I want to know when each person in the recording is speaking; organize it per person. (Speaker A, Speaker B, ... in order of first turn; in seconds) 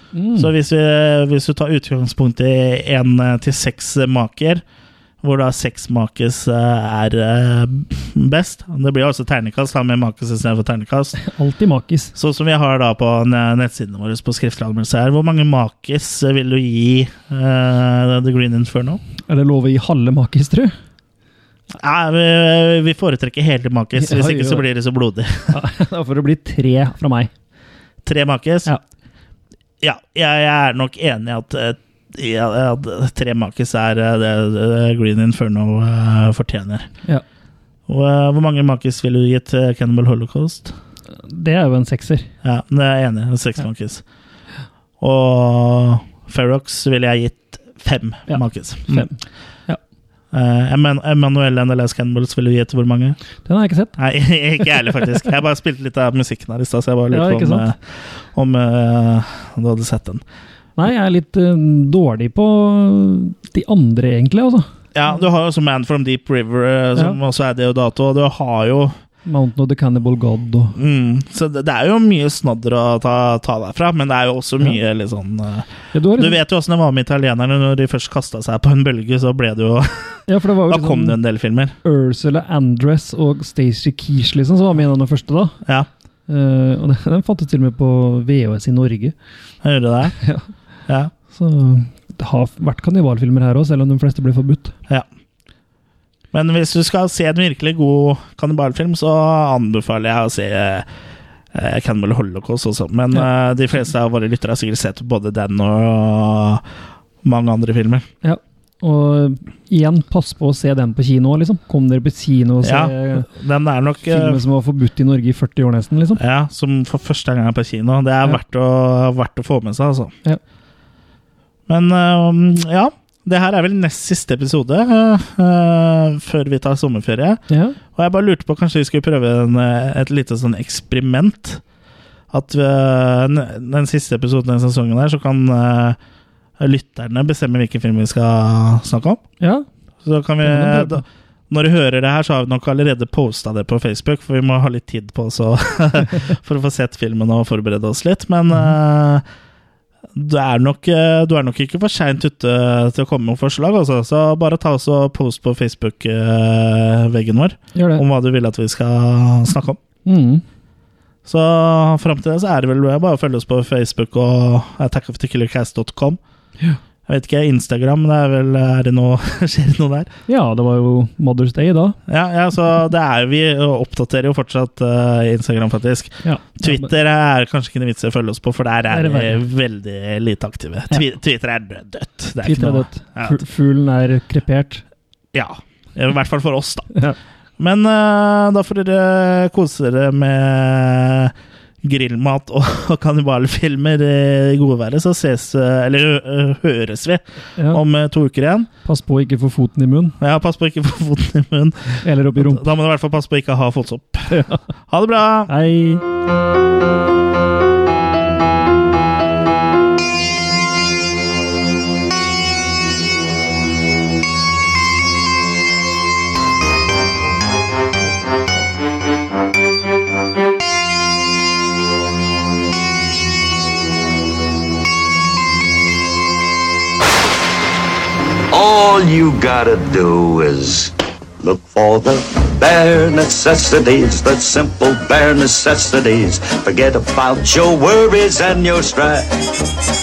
Speaker A: 0.1-0.5, 11.2-12.1, 19.3-20.7, 24.0-24.7, 25.5-27.3, 41.2-42.3, 48.3-49.8, 53.5-54.0, 57.1-57.7, 60.8-64.7, 69.3-70.8, 75.9-76.4, 80.3-81.2, 81.8-85.6, 86.3-89.2, 90.2-90.5, 91.3-94.7, 108.2-113.3, 114.1-116.2, 127.5-127.8, 139.4-139.7, 140.4-141.1, 157.8-158.0, 160.1-160.4, 170.3-172.0, 176.2-176.9, 178.9-179.4, 182.4-184.8, 197.6-197.8, 198.8-200.2, 202.0-202.7, 204.3-204.6, 205.5-206.0
Speaker B: 0.4-4.6, 5.2-11.2, 12.2-19.0, 21.8-25.6, 28.0-28.7, 29.8-36.9, 37.9-40.8, 42.4-44.0, 45.0-49.1, 50.3-53.2, 54.0-60.2, 64.9-69.0, 70.8-81.8, 89.6-90.2, 96.3-100.9, 101.5-106.6, 107.2-108.1, 112.6-114.4, 116.2-120.1, 121.7-127.4, 127.9-131.6, 132.3-136.0, 136.6-139.2, 140.0-149.2, 150.2-159.8, 161.3-166.2, 167.1-170.1, 172.1-183.4, 185.3-186.9, 187.6-198.7, 200.2-205.5
Speaker C: 228.5-239.7